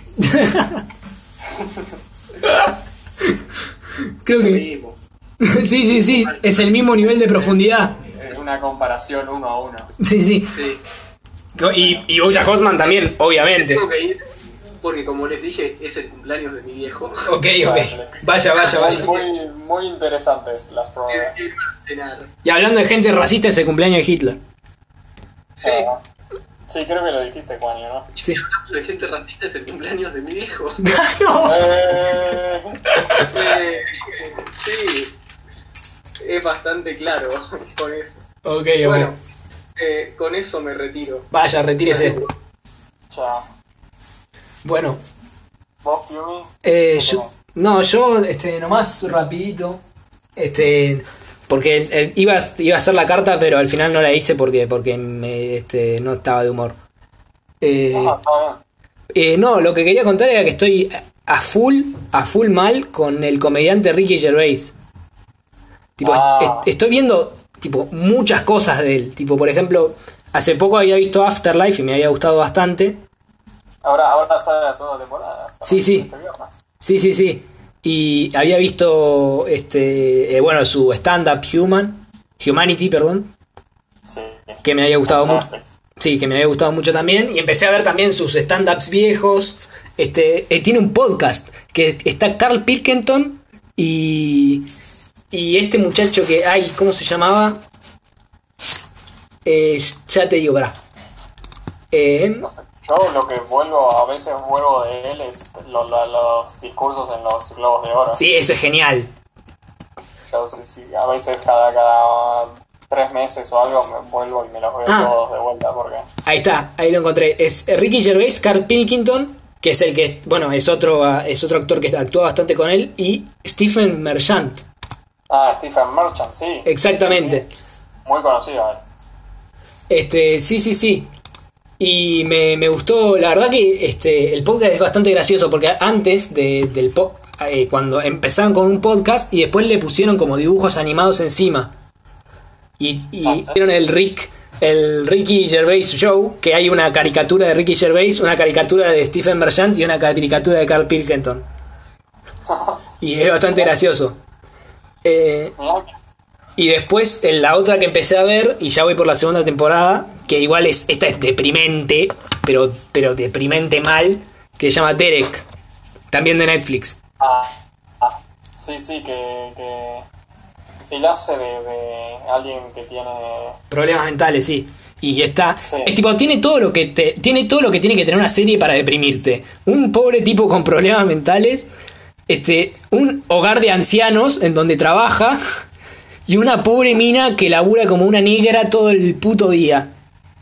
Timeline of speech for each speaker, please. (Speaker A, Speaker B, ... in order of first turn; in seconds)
Speaker A: 0.2-0.8, 2.4-2.7, 4.2-4.6, 5.4-8.0, 10.0-10.5, 11.6-13.8, 17.3-19.1, 22.4-24.4, 30.8-31.7, 32.9-33.2, 38.5-39.1, 41.3-42.2, 44.6-45.0, 46.6-49.8, 50.4-56.8, 57.6-58.2, 59.1-64.7, 66.0-73.0, 75.7-76.1, 76.8-83.3, 84.6-85.5, 86.0-94.7, 95.3-97.6, 99.5-100.7, 101.9-102.5, 108.2-109.1, 114.9-115.1, 116.2-124.6, 126.7-127.5, 129.9-131.1, 131.8-141.7, 142.8-151.4, 153.0-154.2, 155.0-155.6, 156.6-165.4, 166.1-167.0, 173.7-181.7, 182.3-185.4, 186.3-189.9
Speaker B: 1.5-1.9, 7.3-9.9, 11.7-12.1, 17.6-21.4, 25.6-26.0, 26.7-28.1, 31.4-32.8, 43.1-43.5, 45.8-47.4, 57.9-58.6, 66.0-66.7, 73.8-76.6, 84.0-85.8, 102.4-108.2, 110.3-116.1, 125.3-127.4, 128.1-128.8, 143.2-143.6, 152.4-153.8, 155.6-155.9, 167.2-170.1, 170.9-173.6, 175.6-175.9
Speaker C: 4.4-5.0, 5.8-7.5, 10.5-10.8, 13.5-14.2, 14.8-17.3, 18.6-19.3, 21.1-22.3, 25.6-25.9, 28.2-30.8, 33.2-35.1, 36.2-38.2, 38.8-39.2, 39.8-41.3, 41.8-42.3